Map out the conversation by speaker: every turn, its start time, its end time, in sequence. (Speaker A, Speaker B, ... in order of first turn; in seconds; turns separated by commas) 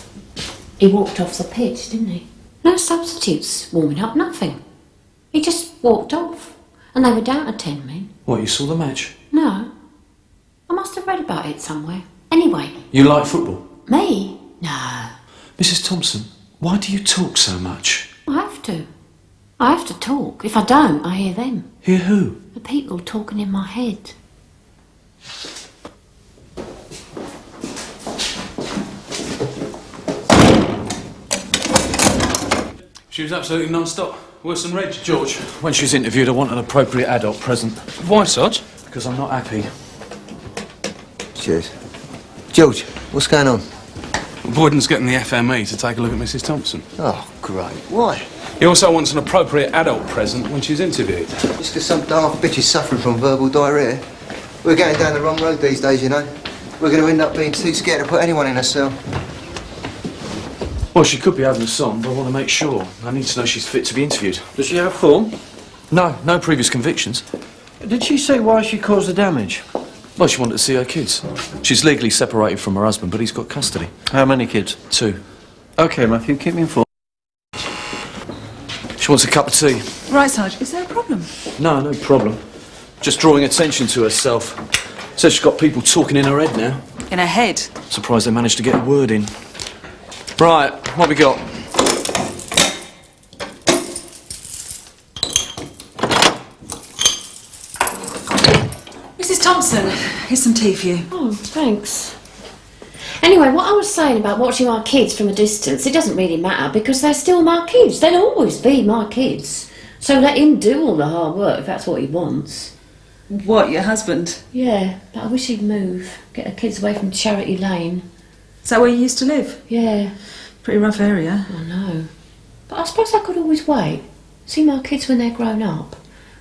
Speaker A: 0.8-4.6, Speaker A: 5.3-8.1, Speaker B: 8.2-9.2, Speaker A: 9.3-9.7, Speaker A: 10.7-12.8, Speaker B: 12.9-13.7, Speaker A: 13.9-15.2, Speaker B: 15.6-18.1, Speaker A: 18.3-18.9, Speaker A: 19.6-21.7, Speaker B: 21.8-22.4, Speaker A: 22.6-24.1, Speaker C: 33.1-35.1, Speaker B: 35.0-37.9, Speaker C: 38.0-38.7, Speaker B: 38.7-40.0, Speaker D: 41.4-41.7, Speaker D: 42.5-43.6, Speaker C: 44.5-46.9, Speaker D: 47.0-48.3, Speaker C: 48.6-51.5, Speaker D: 51.6-54.0, Speaker D: 54.6-59.0, Speaker B: 60.9-64.5, Speaker E: 64.6-65.3, Speaker B: 65.9-67.2, Speaker E: 67.8-69.7, Speaker B: 70.2-74.0, Speaker E: 74.1-74.8, Speaker B: 74.9-75.2, Speaker E: 75.8-76.8, Speaker B: 79.0-80.0, Speaker F: 80.1-81.3, Speaker B: 81.6-86.9, Speaker F: 87.1-87.8, Speaker B: 87.9-89.5, Speaker B: 90.4-91.5, Speaker F: 99.2-101.1, Speaker A: 101.1-102.2, Speaker A: 103.2-112.7, Speaker F: 113.3-114.4, Speaker A: 114.5-118.1, Speaker F: 118.6-119.6, Speaker A: 119.7-120.2, Speaker F: 120.6-121.5, Speaker A: 121.5-122.1, Speaker A: 122.7-126.0